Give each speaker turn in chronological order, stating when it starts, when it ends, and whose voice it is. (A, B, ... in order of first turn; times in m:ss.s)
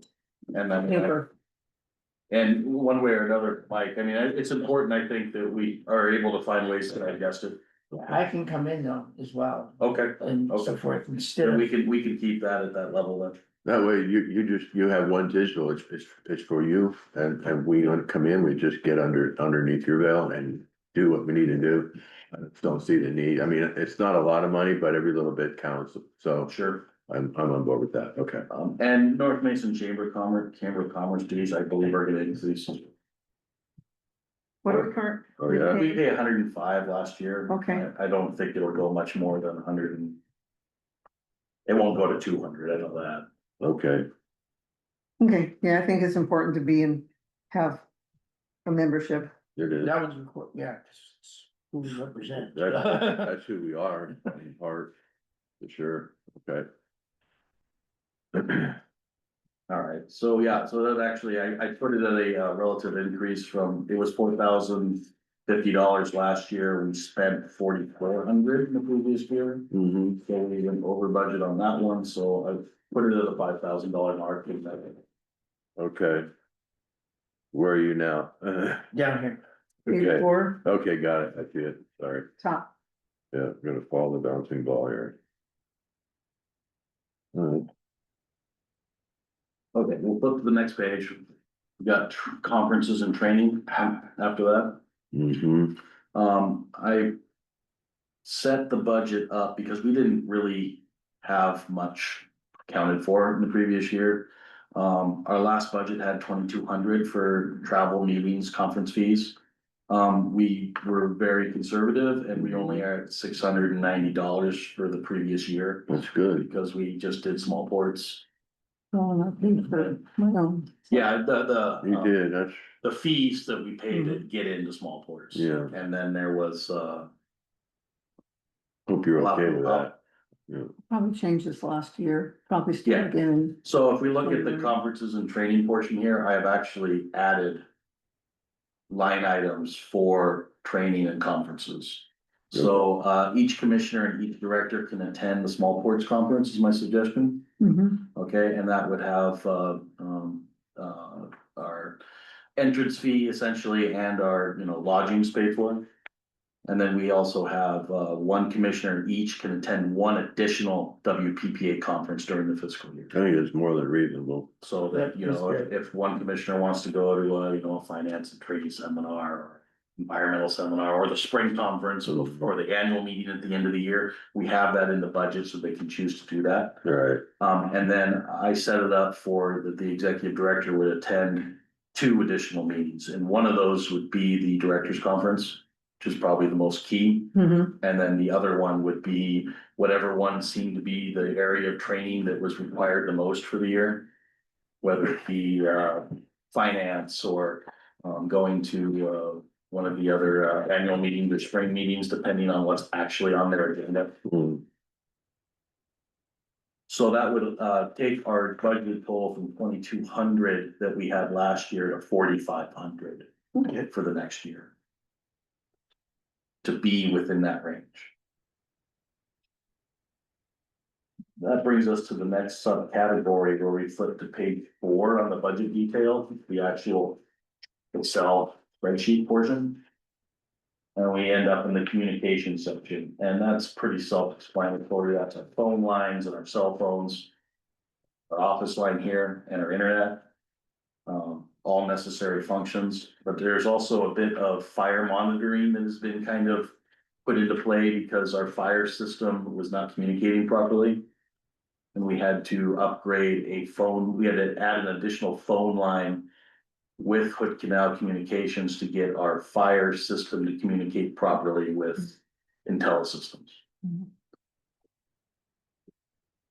0:00.5-0:01.3 A
0:00.9-0:01.2 B
0:02.3-0:07.6 A
0:07.9-0:11.7 C
0:09.8-0:13.4 A
0:13.6-0:28.5 D
0:26.5-0:26.9 A
0:28.5-0:32.9 A
0:34.6-0:36.0 B
0:35.4-0:35.8 D
0:35.5-0:40.2 A
0:37.5-0:37.8 B
0:41.7-0:43.2 A
0:43.6-0:44.1 D
0:45.2-0:47.8 B
0:48.7-0:49.3 B
0:49.6-0:50.0 D
0:49.8-0:53.2 C
0:52.5-0:54.9 D
0:55.6-0:56.7 D
0:58.3-0:58.7 D
0:59.7-1:15.0 A
1:09.7-1:10.2 D
1:15.8-1:16.3 D
1:17.5-1:18.9 D
1:18.9-1:19.4 C
1:19.9-1:20.6 B
1:19.9-1:22.3 D
1:22.4-1:22.7 B
1:23.3-1:25.2 D
1:27.3-1:27.7 D
1:29.7-1:34.8 A
1:35.1-1:35.8 D
1:36.1-1:37.2 A
1:38.2-1:49.4 A
1:49.9-1:58.2 A
1:52.5-1:52.8 D
1:55.9-1:56.5 D
1:58.9-2:01.0 B
1:59.7-2:00.0 A
2:00.9-2:02.1 A
2:01.8-2:02.7 D
2:02.8-2:07.1 A
2:05.3-2:05.7 D
2:08.9-2:09.9 D
2:09.2-2:09.9 A
2:10.5-2:10.7 D
2:10.9-2:13.6 B
2:12.8-2:17.6 A
2:14.2-2:14.7 B
2:18.9-2:27.5 A
2:27.6-2:28.0 B
2:28.1-2:32.0 A
2:32.6-2:35.8 A
2:36.7-2:43.2 A
2:43.1-2:44.5 D
2:44.6-2:56.8 A
2:44.9-2:45.6 C
2:52.1-2:52.5 D
2:56.8-2:57.2 D
2:57.4-3:14.1 A
3:07.3-3:07.7 B
3:14.8-3:24.2 A
3:24.2-3:24.6 D
3:26.9-3:34.7 A
3:36.6-3:38.1 A
3:41.4-3:47.2 A
3:47.9-3:49.8 A
3:51.0-3:57.3 A
3:58.3-4:00.3 A
4:01.1-4:11.1 A
4:11.9-4:16.3 A
4:17.0-4:23.6 A